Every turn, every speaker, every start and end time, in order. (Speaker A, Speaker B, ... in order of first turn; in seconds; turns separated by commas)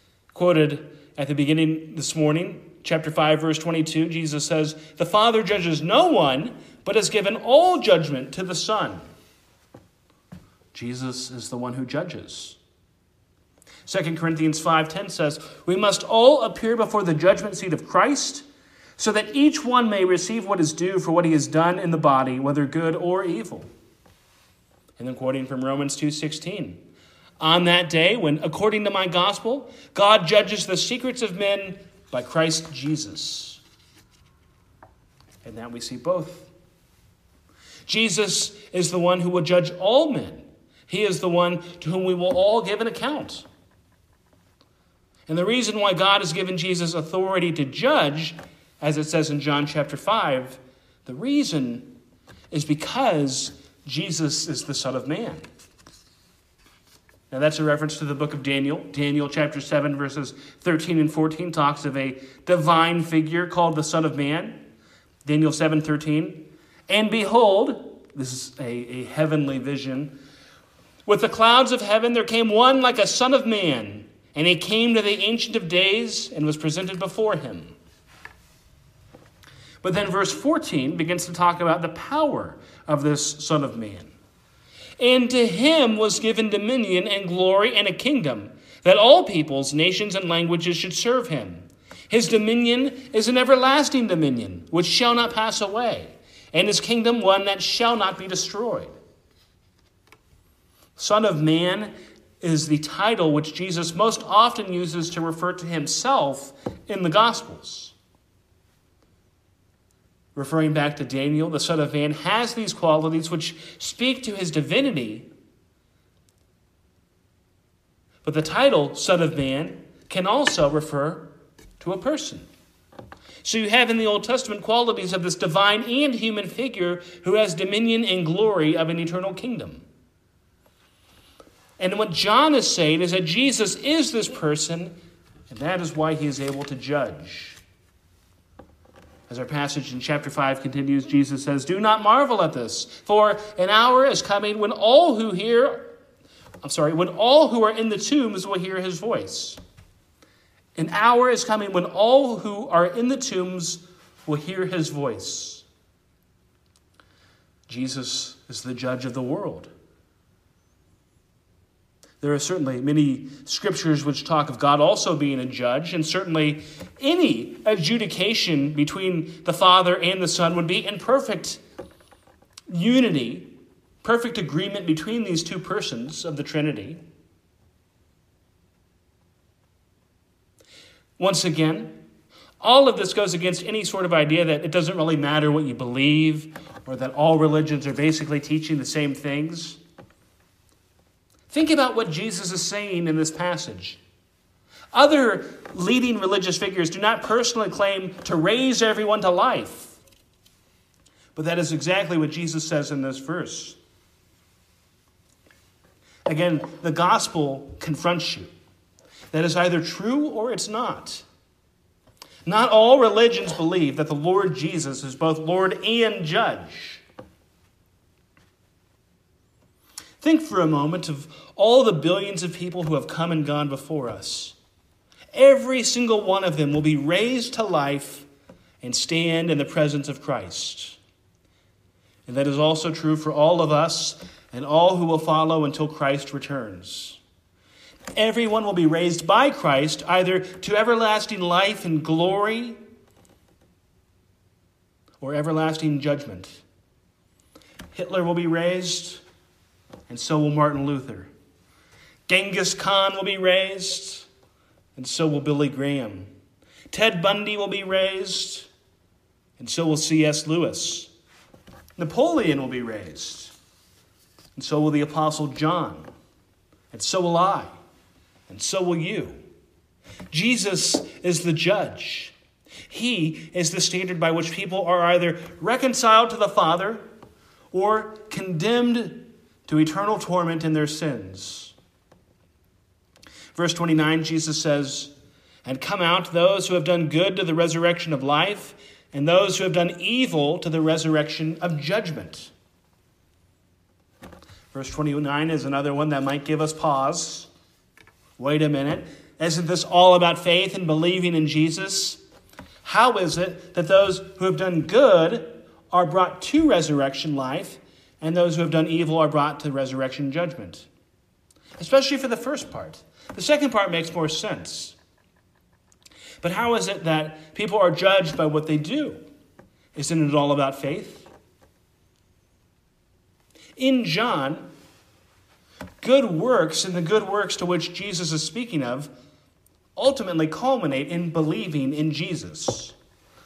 Speaker A: 0.3-9.0, Speaker A: 10.7-12.6, Speaker A: 13.8-18.4, Speaker A: 19.0-23.7, Speaker A: 25.0-26.8, Speaker A: 27.4-33.6, Speaker A: 35.4-36.5, Speaker A: 37.9-43.5, Speaker A: 45.3-51.9, Speaker A: 52.5-55.5, Speaker A: 57.3-64.6, Speaker A: 65.2-70.2, Speaker A: 71.0-77.7, Speaker A: 79.8-84.1, Speaker A: 85.0-98.9, Speaker A: 101.0-107.9, Speaker A: 110.3-115.3, Speaker A: 118.2-122.5, Speaker A: 123.4-129.8, Speaker A: 131.8-134.9, Speaker A: 135.5-137.6, Speaker A: 139.3-145.9, Speaker A: 146.6-149.6, Speaker A: 150.8-155.6, Speaker A: 157.7-159.7, Speaker A: 162.2-171.6, Speaker A: 172.7-177.0, Speaker A: 181.2-182.0, Speaker A: 182.6-189.8, Speaker A: 191.5-194.0, Speaker A: 194.9-200.0, Speaker A: 201.3-203.8, Speaker A: 206.2-208.5, Speaker A: 209.3-211.2, Speaker A: 212.4-217.0, Speaker A: 220.2-224.6, Speaker A: 225.3-228.2, Speaker A: 228.8-231.0, Speaker A: 232.2-237.2, Speaker A: 238.2-242.8, Speaker A: 245.2-246.6, Speaker A: 247.9-249.2, Speaker A: 250.1-251.3, Speaker A: 252.3-254.3, Speaker A: 254.9-256.3, Speaker A: 256.9-258.7, Speaker A: 259.6-261.1, Speaker A: 262.0-263.5, Speaker A: 264.5-266.1, Speaker A: 266.9-267.7, Speaker A: 268.5-269.4, Speaker A: 270.3-272.3, Speaker A: 272.9-277.1, Speaker A: 277.7-281.7, Speaker A: 283.5-292.5, Speaker A: 294.7-297.5, Speaker A: 298.4-302.2, Speaker A: 302.8-310.9, Speaker A: 311.8-314.9, Speaker A: 316.4-319.2, Speaker A: 319.9-321.3, Speaker A: 323.8-324.7, Speaker A: 326.0-329.1, Speaker A: 329.9-332.9